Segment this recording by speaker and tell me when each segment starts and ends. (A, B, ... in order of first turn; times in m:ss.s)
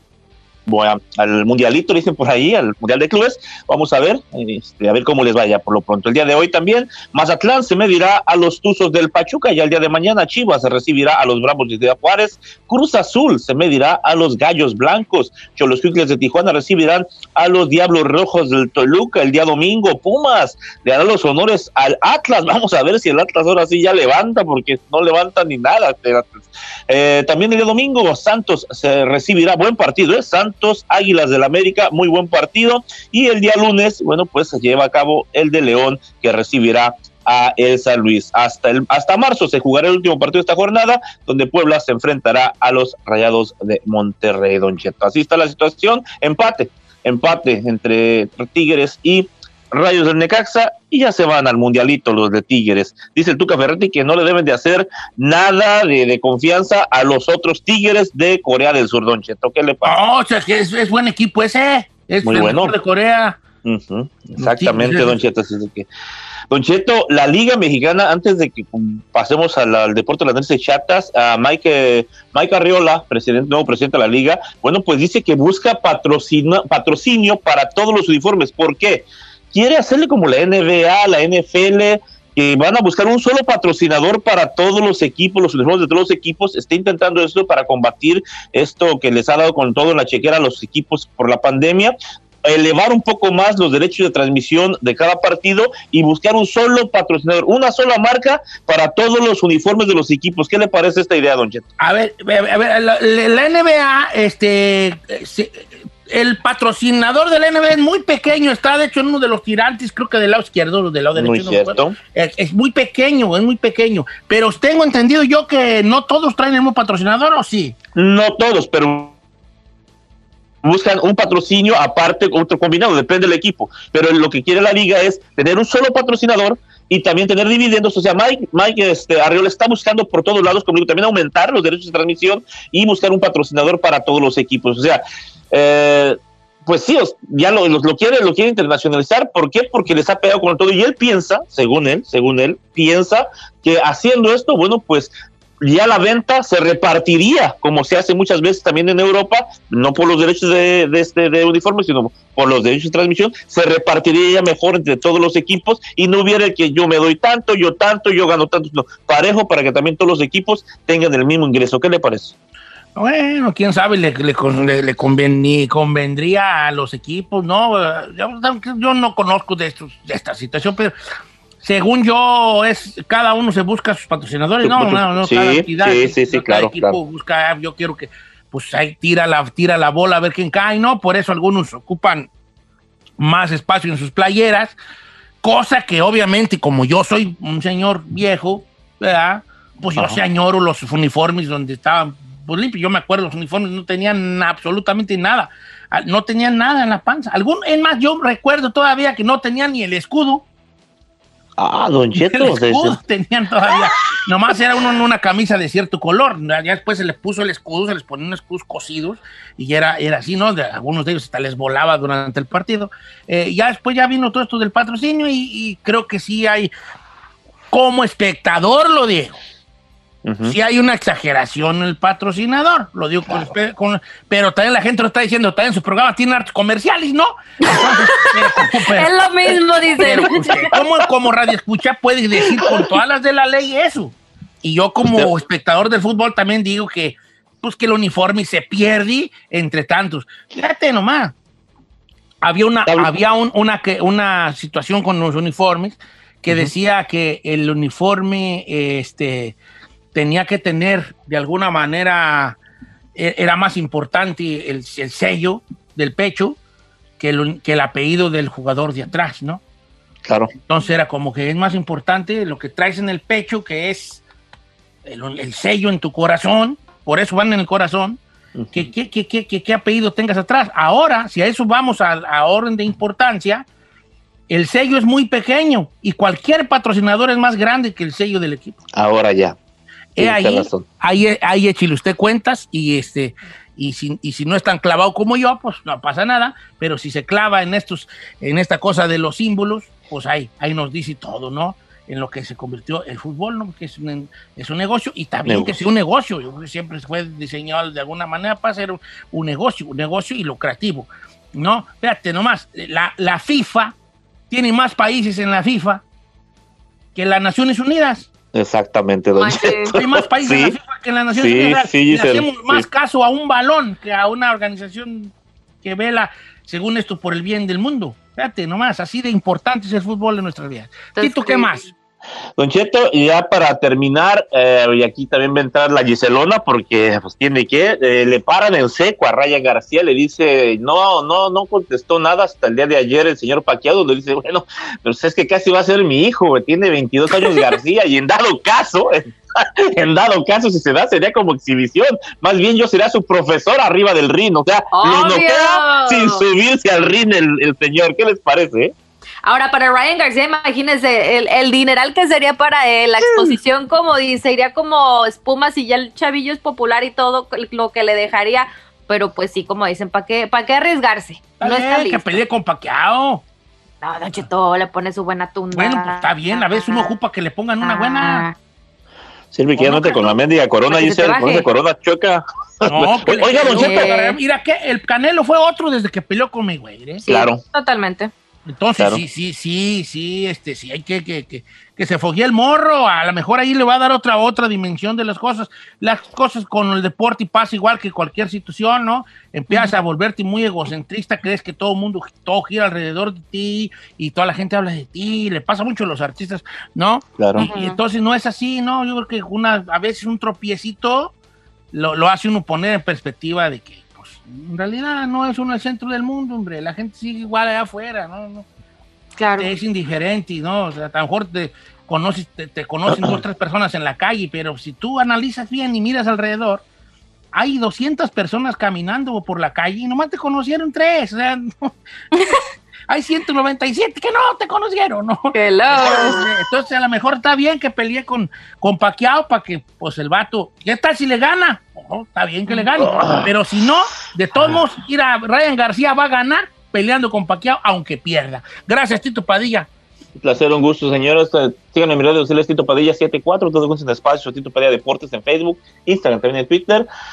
0:00.7-1:00.0 A
0:59.8-1:03.4 B
1:02.2-1:02.7 A
1:03.6-1:05.9 A
1:04.4-1:05.2 B
1:06.5-1:41.6 A
1:41.8-1:57.8 B
1:51.2-1:52.0 A
1:58.0-1:59.2 A
2:00.6-2:42.3 A
2:43.0-2:51.0 B
2:51.6-3:02.3 B
2:54.6-2:57.0 A
3:03.2-3:04.8 B
3:05.4-3:20.5 B
3:21.6-3:23.0 A
3:22.2-3:36.7 B
3:37.7-3:39.4 B
3:40.2-3:40.6 A
3:40.4-4:01.4 B
3:47.6-3:50.7 C
3:50.4-3:50.7 A
3:55.0-3:55.3 A
4:02.4-4:09.6 B
4:10.1-4:12.6 B
4:13.2-4:16.6 B
4:17.2-4:19.6 B
4:20.3-4:20.5 A
4:20.5-4:24.2 B
4:25.0-4:28.2 B
4:28.6-4:28.8 A
4:28.7-4:33.7 B
4:34.5-4:38.8 B
4:39.0-4:39.6 A
4:40.2-5:04.0 B
4:40.2-4:40.8 A
4:55.5-4:55.8 A
5:04.5-5:06.0 B
5:07.2-5:08.3 B
5:08.5-5:10.8 A
5:09.4-5:10.0 C
5:10.0-5:21.9 B
5:11.4-5:12.8 A
5:21.2-5:21.8 C
5:22.6-5:48.9 A
5:44.9-5:46.4 C
5:49.4-6:02.4 C
6:01.6-6:03.4 B
6:04.0-6:07.1 C
6:05.7-6:08.5 B
6:07.8-6:08.6 C
6:09.5-6:14.1 A
6:09.8-6:10.3 B
6:10.9-6:11.7 C
6:12.9-6:17.2 B
6:13.7-6:14.4 C
6:17.2-6:18.3 C
6:17.2-6:17.6 A
6:18.7-6:41.3 B
6:37.4-6:37.7 A
6:37.6-6:38.0 C
6:41.9-6:48.7 B
6:49.4-6:49.7 C
6:49.6-6:56.8 B
6:53.1-6:53.4 A
6:57.5-7:01.9 B
7:02.3-7:02.6 C
7:03.1-7:19.9 B
7:05.5-7:06.4 C
7:13.0-7:13.5 A
7:20.4-7:27.1 A